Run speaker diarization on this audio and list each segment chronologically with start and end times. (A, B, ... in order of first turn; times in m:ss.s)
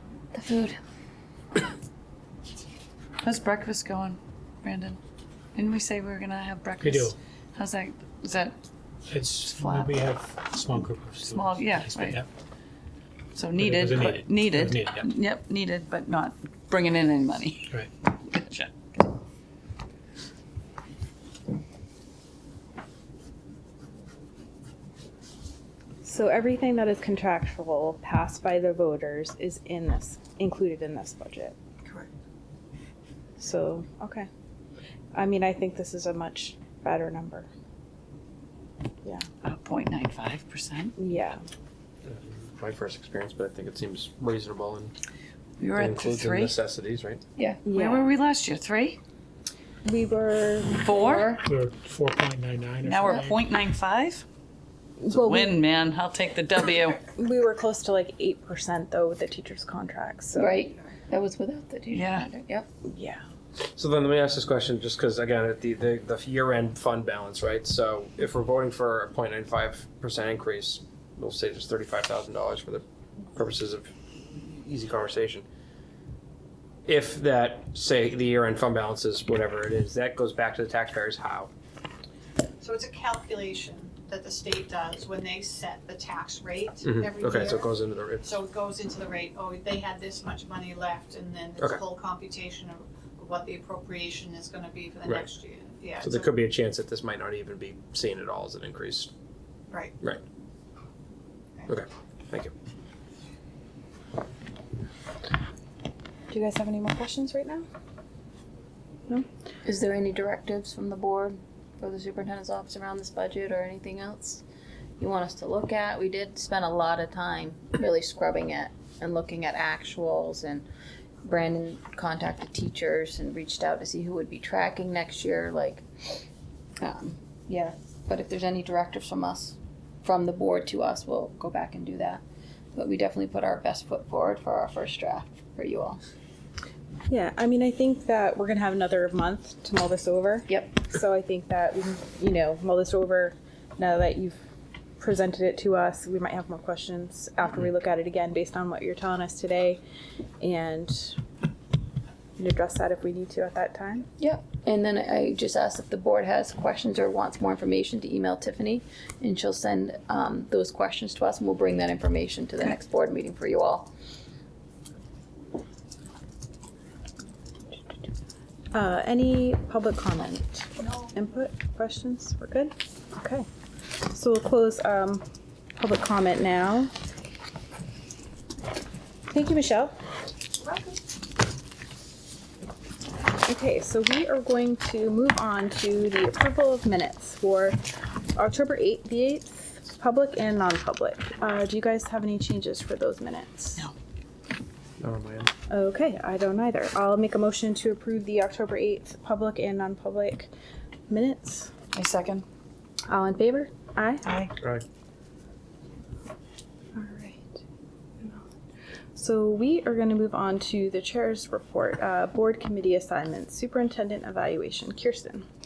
0:00.3-0:00.8 A
0:03.2-0:05.0 B
0:05.6-0:08.6 B
0:06.8-0:07.2 C
0:09.1-0:12.3 C
0:09.4-0:10.1 B
0:11.2-0:12.2 B
0:13.3-0:19.1 B
0:13.6-0:15.1 C
0:26.0-0:31.6 D
0:33.4-0:34.3 D
0:35.1-0:37.5 D
0:39.4-0:41.0 B
0:41.0-0:41.4 D
0:42.0-0:44.9 E
0:45.6-0:46.6 B
0:45.8-0:47.2 E
0:47.4-0:47.6 A
0:47.6-0:48.1 D
0:47.7-0:49.0 B
0:49.8-0:51.2 D
0:50.8-0:51.4 B
0:50.9-0:51.4 A
0:51.4-0:53.4 C
0:52.8-0:54.2 B
0:55.0-0:55.5 D
0:55.1-0:57.0 B
0:57.1-1:00.6 D
1:00.4-1:02.7 A
1:01.9-1:02.3 B
1:02.8-1:03.2 D
1:03.7-1:15.5 E
1:16.9-1:21.5 E
1:22.6-1:36.3 F
1:26.8-1:28.3 E
1:36.0-1:39.1 E
1:39.7-1:40.0 F
1:41.7-1:42.5 E
1:46.3-1:47.7 D
1:49.6-1:54.4 A
1:55.0-2:00.7 A
2:01.2-2:06.2 A
2:06.8-2:12.2 A
2:12.8-2:16.0 A
2:17.1-2:24.4 D
2:20.5-2:20.8 A
2:25.0-2:29.8 D
2:30.4-2:31.2 D
2:32.4-2:34.1 D
2:34.2-2:43.9 A
2:48.7-2:53.5 D
2:50.8-2:51.1 F
2:54.0-2:55.2 D
2:55.8-2:56.9 D
2:59.3-2:59.9 D
3:00.6-3:01.0 F
3:03.4-3:07.8 D
3:08.4-3:13.8 D
3:15.0-3:15.5 E
3:15.7-3:20.5 D
3:21.1-3:21.7 D
3:21.9-3:22.4 B
3:23.1-3:24.3 D
3:24.3-3:24.5 B
3:24.6-3:24.8 E
3:27.0-3:27.6 D
3:29.2-3:35.5 D